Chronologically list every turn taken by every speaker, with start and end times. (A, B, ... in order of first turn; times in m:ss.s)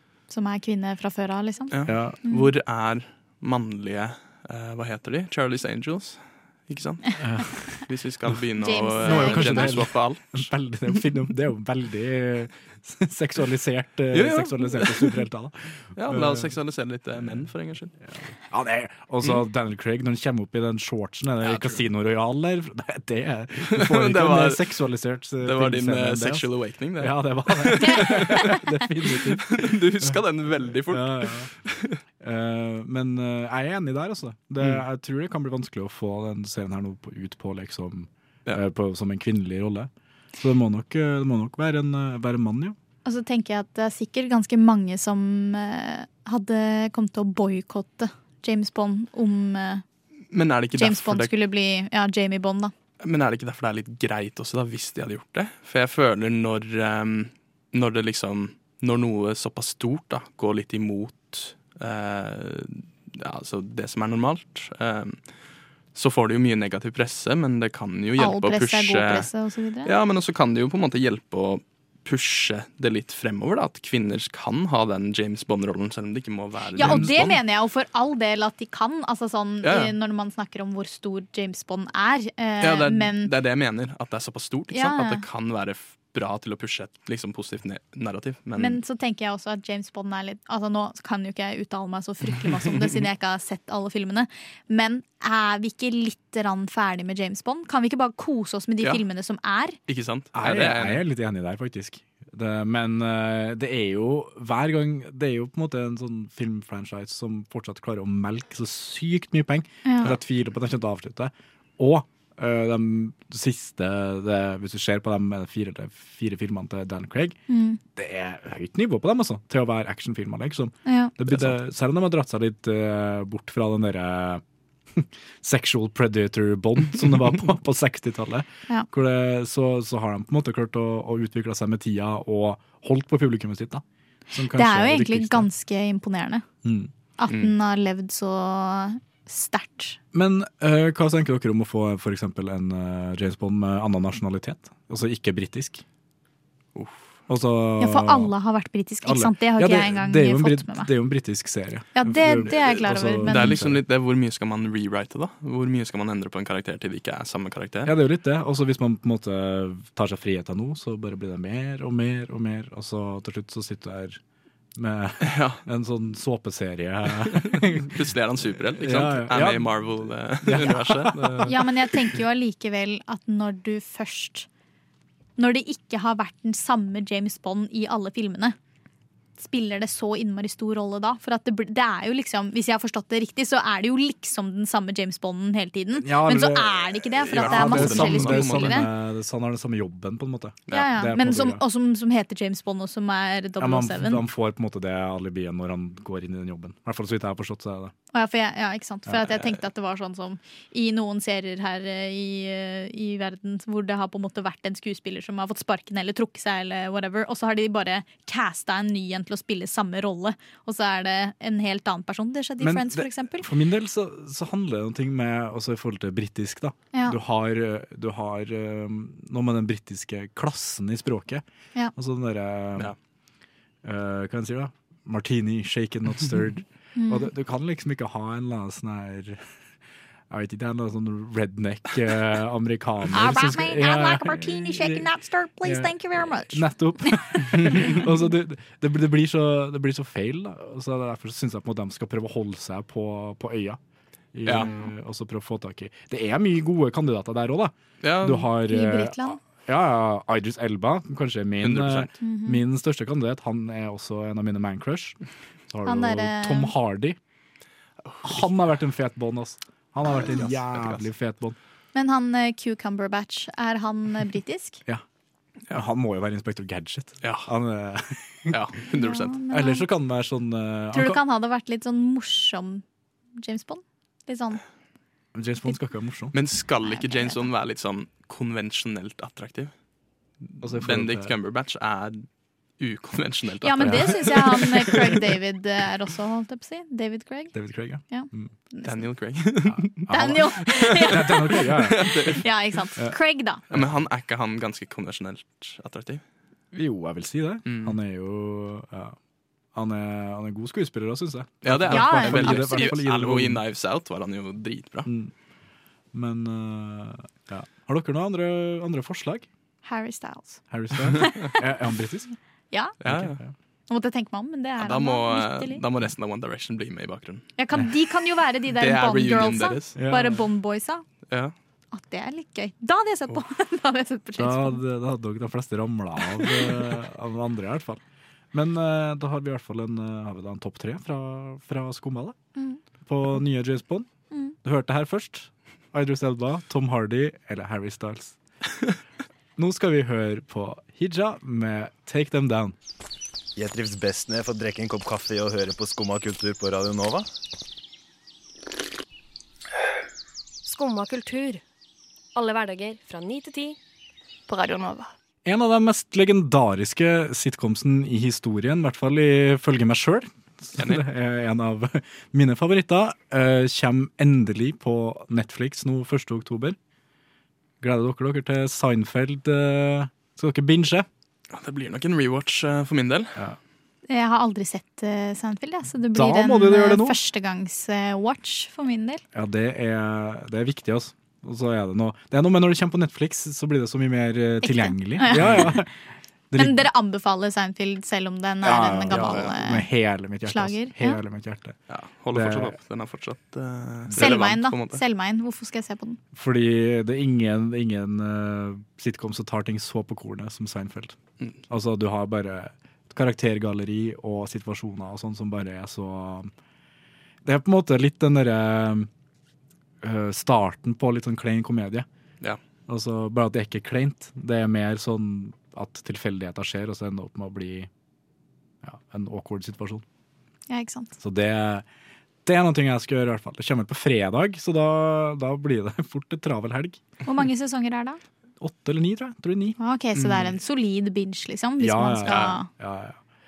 0:00.3-0:01.7 A
0:01.7-0:10.4 B
0:01.9-0:02.2 C
0:07.2-0:07.6 C
0:08.6-0:09.8 A
0:09.0-0:16.5 C
0:14.1-0:15.2 B
0:16.0-0:17.9 B
0:17.2-0:17.4 C
0:18.0-0:30.2 C
0:21.4-0:21.8 B
0:23.7-0:24.8 B
0:25.4-0:28.5 B
0:27.9-0:28.4 A
0:29.0-0:32.0 B
0:30.9-0:31.5 C
0:32.2-0:42.8 C
0:43.0-0:49.8 A
0:50.3-0:51.3 B
0:50.7-0:52.7 A
0:53.0-1:05.2 B
1:05.9-1:09.3 B
1:08.2-1:09.9 A
1:09.8-1:17.4 B
1:16.8-1:23.3 A
1:16.9-1:17.1 C
1:19.6-1:19.9 B
1:22.6-1:28.8 B
1:24.7-1:25.2 A
1:28.6-1:39.8 A
1:39.9-1:41.0 B
1:40.3-1:57.4 C
1:49.8-1:50.1 A
1:57.5-1:57.8 A
1:57.9-2:04.4 C
2:00.8-2:01.1 A
2:04.9-2:15.5 C
2:14.4-2:16.4 A
2:16.6-2:16.9 C
2:17.2-2:20.0 A
2:20.1-2:25.8 C
2:26.7-2:27.2 B
2:27.3-2:28.3 C
2:27.8-2:30.9 A
2:29.0-2:33.8 C
2:32.0-2:33.6 A
2:33.2-2:37.9 B
2:37.8-2:44.2 C
2:44.8-2:48.0 C
2:45.2-2:45.6 B
2:47.2-2:51.6 B
2:48.7-2:51.6 C
2:51.4-2:54.5 A
2:55.4-2:58.6 A
2:59.4-3:08.9 A
3:05.9-3:11.6 C
3:07.2-3:08.8 B
3:10.7-3:14.2 A
3:13.6-3:17.9 C
3:18.1-3:33.5 A
3:32.6-3:41.4 C
3:42.0-3:42.9 C
3:43.8-3:49.4 C
3:47.0-3:47.3 A
3:50.3-3:55.1 C
3:53.1-3:58.0 A
3:55.6-4:03.8 C
3:57.5-3:57.9 B
4:04.3-4:15.2 C
4:04.4-4:04.7 B
4:08.0-4:08.5 B
4:08.6-4:09.4 A
4:11.6-4:12.1 B
4:12.2-4:12.6 A
4:15.7-4:17.2 C
4:15.8-4:16.7 A
4:18.0-4:18.5 B
4:18.2-4:21.6 C
4:20.0-4:21.0 B
4:21.9-4:24.8 A
4:25.7-4:28.6 C
4:27.2-4:27.5 B
4:28.5-4:29.3 B
4:28.9-4:29.9 A
4:29.5-4:31.2 C
4:30.9-4:32.8 A
4:33.4-4:34.6 A
4:35.3-4:36.3 C
4:36.3-4:39.7 B
4:36.8-4:37.5 A
4:40.4-4:42.3 B
4:40.6-4:41.3 C
4:42.8-4:45.2 B
4:43.6-4:47.5 A
4:43.8-4:44.9 C
4:47.5-4:48.5 C
4:48.1-4:49.0 A
4:48.8-4:52.5 B
4:49.8-4:52.3 C
4:50.1-4:53.6 A
4:53.7-4:56.2 B
4:56.7-4:59.2 C
4:57.6-4:58.0 B
4:59.7-5:03.6 C
5:01.6-5:05.1 B
5:01.9-5:03.0 A
5:05.0-5:05.3 C
5:06.1-5:09.5 C
5:09.8-5:10.6 A
5:10.7-5:12.3 C
5:11.1-5:11.6 A
5:13.0-5:13.4 B
5:13.0-5:13.5 C
5:13.9-5:15.8 A
5:14.8-5:17.5 B
5:17.6-5:21.0 A
5:18.7-5:20.0 B
5:20.0-5:20.4 C
5:21.3-5:21.5 B
5:21.9-5:24.8 A
5:24.4-5:28.0 C
5:26.4-5:26.7 A
5:28.5-5:32.4 C
5:33.0-5:34.1 C
5:34.6-5:38.4 C
5:39.6-5:42.8 C
5:43.6-5:47.2 D
5:50.7-5:51.6 E
5:52.3-5:53.8 E
5:54.5-5:55.1 E
5:55.4-6:06.8 C
6:00.8-6:01.0 B
6:07.8-6:11.1 C
6:11.5-6:13.4 B
6:14.1-6:19.2 A
6:16.1-6:17.2 C
6:19.3-6:25.9 C
6:24.6-6:25.8 A
6:25.3-6:25.7 B
6:26.5-6:26.9 C
6:26.5-6:29.9 A
6:28.6-6:31.8 C
6:29.1-6:29.5 B
6:30.4-6:31.2 A
6:31.9-6:35.0 B
6:32.3-6:32.7 C
6:34.1-6:34.4 C
6:34.2-6:36.2 A
6:36.3-6:41.2 C
6:41.7-6:46.5 C
6:47.4-6:49.1 C
6:50.0-6:52.0 C
6:52.9-6:57.9 C
6:58.8-7:00.0 C
7:00.7-7:01.1 A
7:01.2-7:01.8 C
7:02.4-7:07.0 C
7:07.2-7:08.2 A
7:08.6-7:09.8 C
7:09.8-7:12.7 A
7:10.2-7:10.5 B
7:11.8-7:13.2 C
7:12.3-7:12.5 B